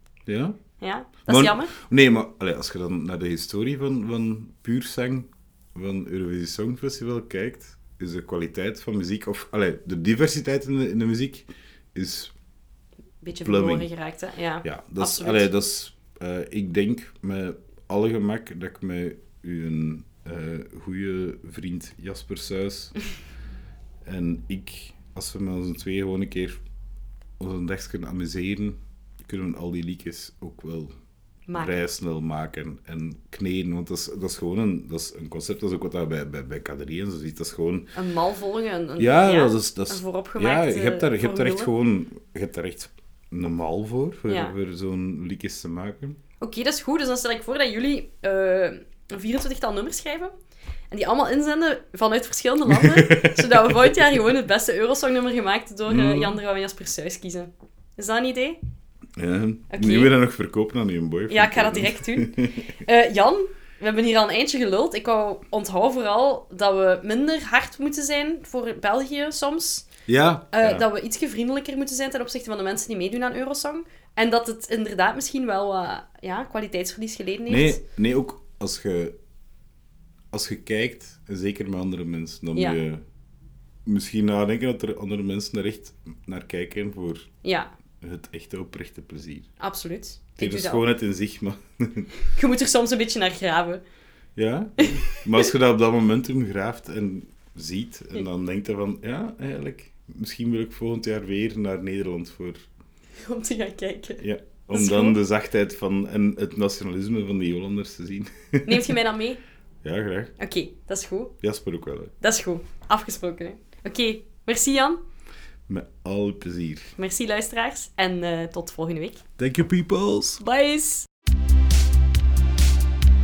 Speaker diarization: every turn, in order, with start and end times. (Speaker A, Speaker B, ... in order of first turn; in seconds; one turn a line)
Speaker A: 0.3-0.6
Speaker B: 0.8-1.7
Speaker A: 1.3-12.3
Speaker B: 13.2-15.5
Speaker A: 13.4-13.9
Speaker A: 14.6-22.9
Speaker A: 24.1-26.6
Speaker A: 27.4-30.9
Speaker B: 31.5-31.8
Speaker A: 31.5-37.9
Speaker B: 38.0-41.7
Speaker A: 39.0-46.2
Speaker B: 44.3-44.5
Speaker B: 46.4-50.3
Speaker B: 50.9-58.6
Speaker A: 52.7-54.0
Speaker A: 55.9-56.4
Speaker A: 59.2-62.7
Speaker B: 59.7-60.1
Speaker B: 61.3-69.9
Speaker A: 70.1-70.8
Speaker B: 70.5-77.8
Speaker A: 77.5-79.2
Speaker A: 80.3-83.0
Speaker A: 83.8-87.3
Speaker B: 87.4-87.7
Speaker A: 88.0-89.5
Speaker B: 89.6-90.8
Speaker A: 90.4-92.1
Speaker B: 92.3-93.8
Speaker A: 94.4-102.6
Speaker B: 94.8-95.5
Speaker B: 103.2-105.2
Speaker A: 104.2-109.0
Speaker B: 108.7-109.4
Speaker A: 109.8-110.3
Speaker B: 110.4-111.3
Speaker A: 111.4-112.1
Speaker B: 112.2-115.0
Speaker A: 115.7-117.0
Speaker B: 117.0-119.2
Speaker A: 119.4-120.4
Speaker B: 120.4-121.1